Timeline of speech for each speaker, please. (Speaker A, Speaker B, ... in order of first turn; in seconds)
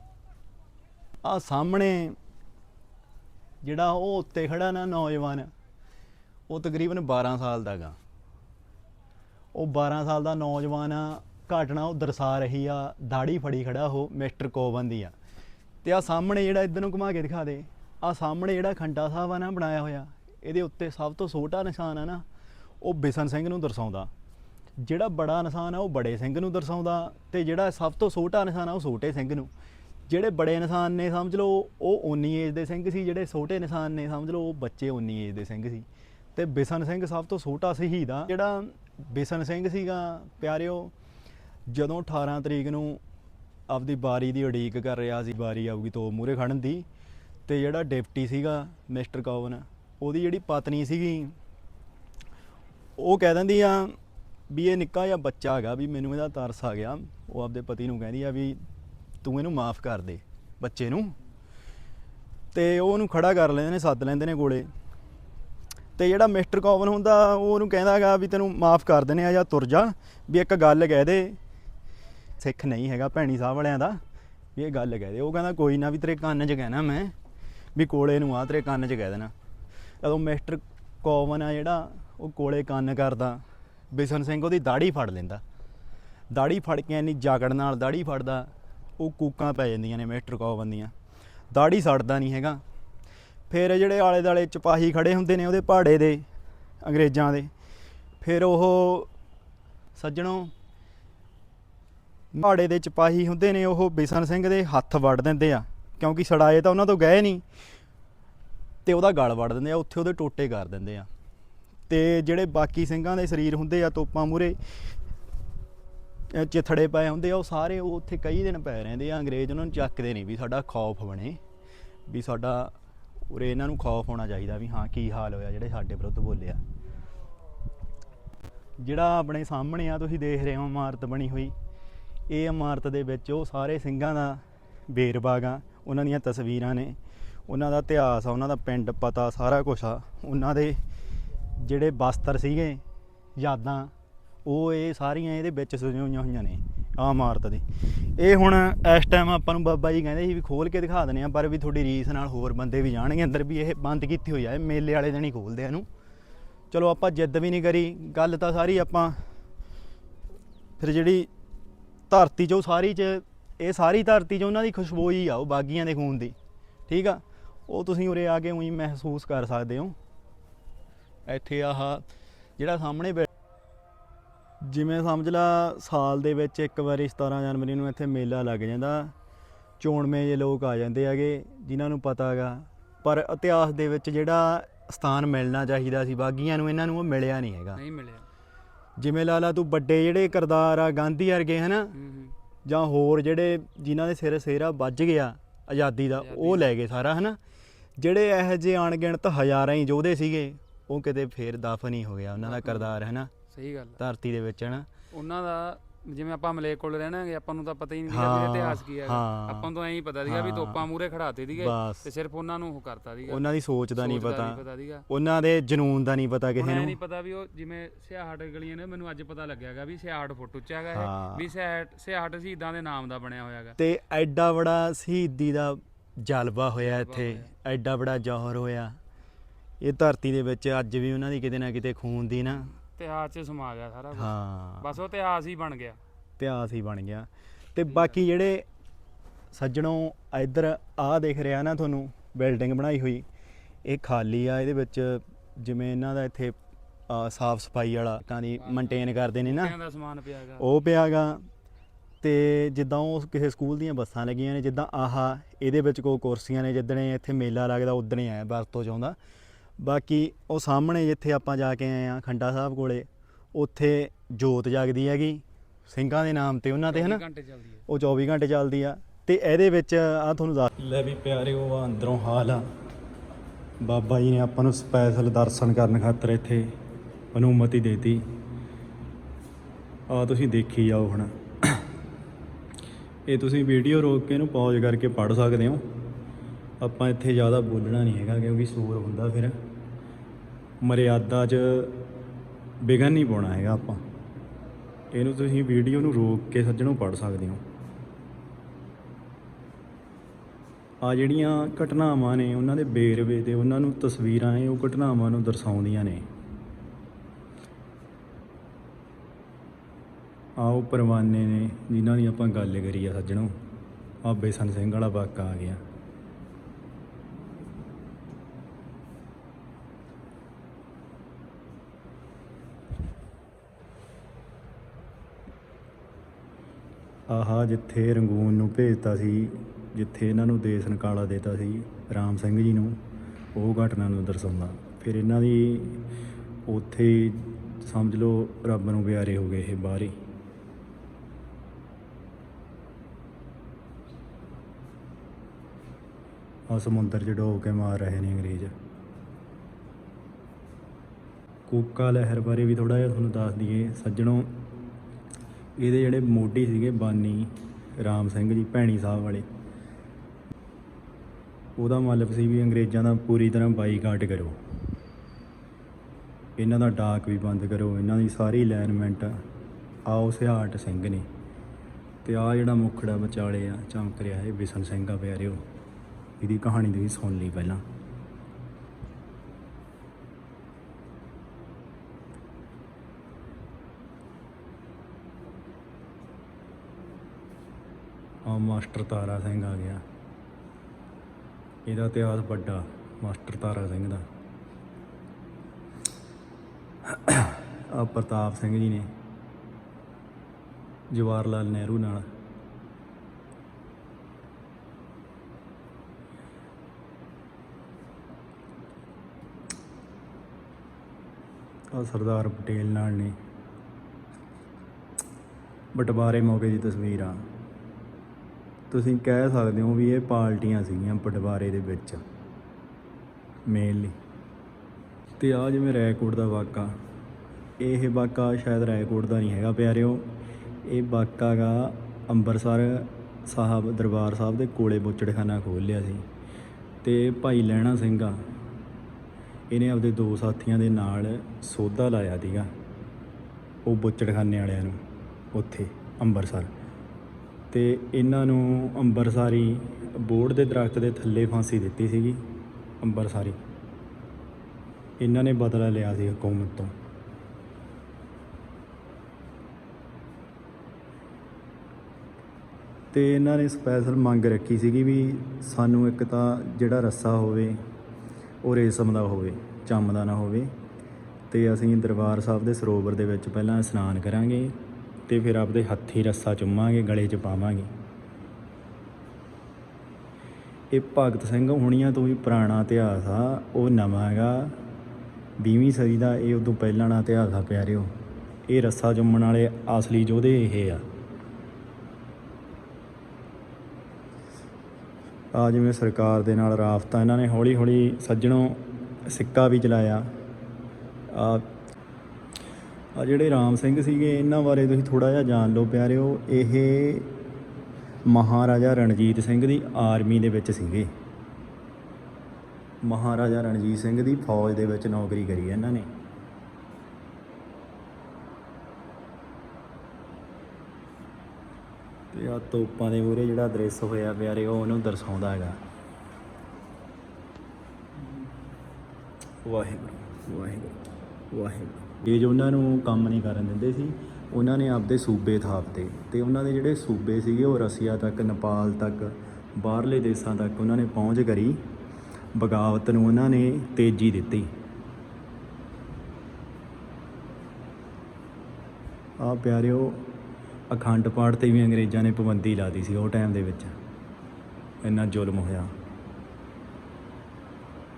Speaker A: 1.2-2.2, 3.6-5.5, 6.5-8.0, 9.5-15.1, 15.8-22.2, 22.8-24.1, 24.8-29.5, 30.1-40.9, 41.7-43.0, 43.7-46.9, 47.5-51.4, 53.0-54.0, 54.5-58.6, 59.2-61.1, 62.5-64.7, 66.0-71.4, 72.4-74.0, 74.5-77.1, 77.7-79.3, 80.0-85.4, 86.3-90.9, 91.5-92.6, 93.5-96.3, 96.8-97.5, 98.2-99.1, 99.9-100.5, 102.3-107.4, 108.8-111.1, 111.9-114.6, 116.3-121.4, 122.1-122.7, 123.3-126.6, 128.8-131.5, 132.3-140.8, 141.6-142.8, 143.3-143.9, 144.4-155.9, 156.7-159.3, 160.8-161.3, 162.1-166.3, 166.9-169.9, 171.3-172.0, 172.6-173.3, 174.6-179.1, 179.8-187.8, 189.0-191.9, 192.6-197.4, 198.0-203.3, 204.0-204.9, 208.1-209.7, 210.2-210.8, 211.5-212.1, 213.2-217.0, 220.9-221.5, 223.8-229.0, 229.8-232.7, 234.1-234.9, 236.4-238.6, 239.5-243.2, 243.8-246.6, 247.1-249.7, 250.6-251.4, 252.2-259.2, 259.8-267.2, 267.9-272.6, 273.8-276.7, 277.3-278.2, 280.1-281.9, 283.3-285.8, 286.8-289.6, 290.8-292.0, 292.8-294.0, 295.1-297.6, 301.0-306.3, 310.6-313.5, 314.2-315.8, 327.3-333.0, 333.5-336.1, 336.7-340.1, 346.7-348.7, 351.7-354.6, 355.8-359.4, 361.8-364.6, 366.6-369.3, 370.1-371.3, 372.2-375.6, 376.4-377.8, 388.4-390.0, 391.9-394.2, 397.0-399.1, 401.1-402.3, 411.9-413.3, 415.9-417.4, 418.9-422.2, 423.7-424.1, 425.4-426.9, 427.8-430.3, 430.8-436.2, 437.0-438.4, 439.7-442.7, 443.9-445.0, 445.5-446.7, 447.7-452.5, 453.0-453.6, 455.2-456.9, 463.1-467.8, 468.6-470.7, 471.5-474.8, 475.3-477.9, 480.9-484.8, 485.6-488.1, 488.7-491.0, 495.5-500.2, 501.3-501.7, 503.1-507.3, 508.2-511.1, 513.0-516.1, 522.3-525.8, 529.6-531.0, 531.5-541.8, 542.5-544.7, 549.4-550.3, 550.9-553.9, 555.0-555.9
Speaker B: 187.8-188.2, 191.9-192.3, 196.2-196.7, 202.4-204.0, 205.1-215.1, 216.6-223.8, 226.8-227.5, 232.8-236.0, 248.6-250.7, 266.9-267.8